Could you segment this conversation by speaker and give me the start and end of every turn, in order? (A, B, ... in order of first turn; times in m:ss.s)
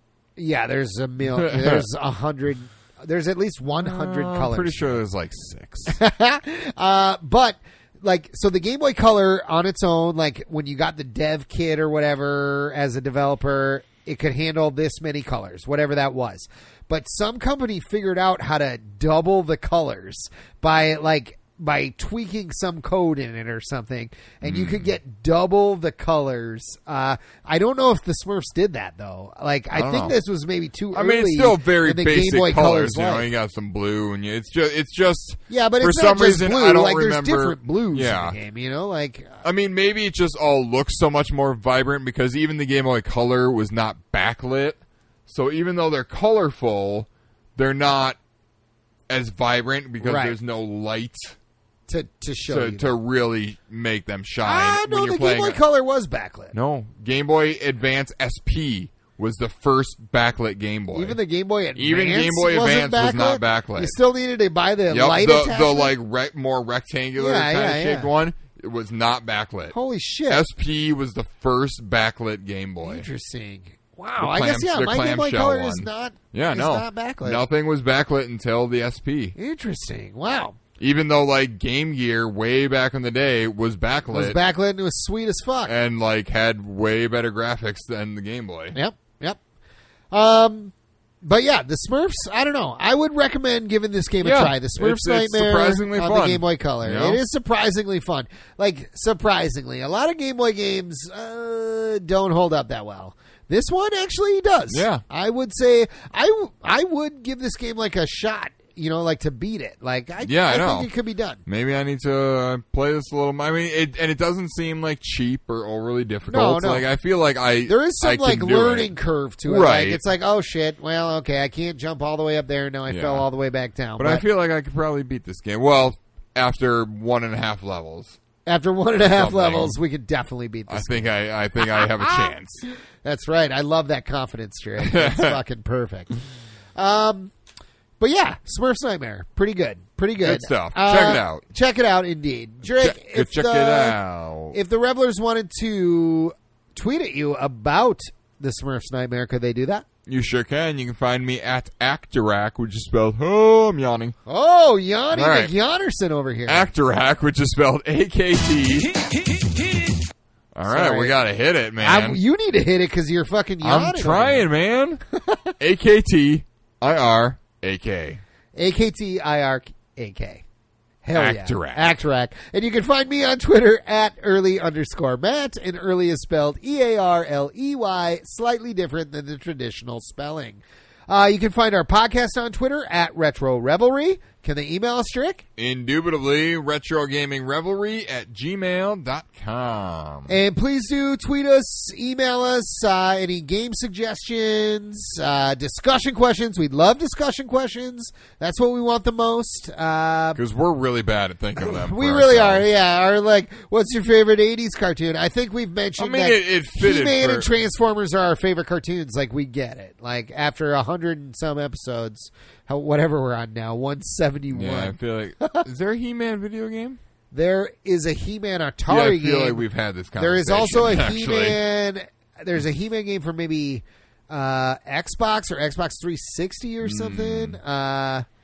0:00.4-0:05.0 A
0:01.2-0:01.9 B
0:03.8-0:06.0 B
0:05.9-0:33.3 A
0:24.4-0:24.9 B
0:29.7-0:30.1 B
0:30.9-0:38.4 B
0:35.5-0:39.4 A
0:39.4-0:48.2 B
0:49.1-0:51.4 B
0:50.0-0:50.4 A
0:51.9-0:53.0 A
0:52.5-0:55.6 B
0:54.4-0:56.5 A
0:56.5-1:01.2 B
1:00.9-1:05.9 A
1:01.8-1:03.9 B
1:04.9-1:09.7 B
1:07.2-1:08.1 A
1:09.7-1:10.4 A
1:10.3-1:13.1 B
1:12.8-1:17.4 A
1:14.2-1:19.4 B
1:19.4-1:20.6 A
1:20.8-1:24.4 B
1:24.1-1:25.7 A
1:25.6-1:28.8 B
1:28.7-1:29.4 A
1:30.1-1:51.4 A
1:34.2-1:37.2 B
1:44.7-1:45.0 B
1:50.2-1:50.9 B
1:51.4-1:58.9 B
1:56.3-1:56.8 A
1:57.7-2:04.2 A
1:59.4-2:00.0 B
2:02.9-2:03.3 B
2:04.0-2:08.2 B
2:08.4-2:12.4 A
2:09.0-2:09.8 B
2:10.7-2:12.6 B
2:13.0-2:16.1 A
2:14.8-2:15.4 B
2:16.8-2:17.3 A
2:18.0-2:24.0 A
2:20.2-2:21.4 B
2:22.6-2:24.6 B
2:24.5-2:29.8 A
2:30.1-2:34.1 B
2:34.2-2:36.7 A
2:35.1-2:35.5 B
2:36.5-2:38.9 B
2:40.5-2:42.2 B
2:40.6-2:41.1 A
2:41.8-2:44.5 A
2:43.6-2:45.0 B
2:45.1-2:45.5 A
2:45.6-2:48.2 B
2:48.5-2:50.4 A
2:51.0-3:05.4 A
2:51.1-2:51.9 B
3:05.6-3:10.4 B
3:10.3-3:20.4 A
3:20.4-3:22.6 B
3:21.6-3:35.6 A
3:26.0-3:27.5 B
3:34.5-3:37.0 B
3:37.3-3:39.6 A
3:38.9-3:41.6 B
3:40.2-3:48.2 A
3:46.8-3:47.6 B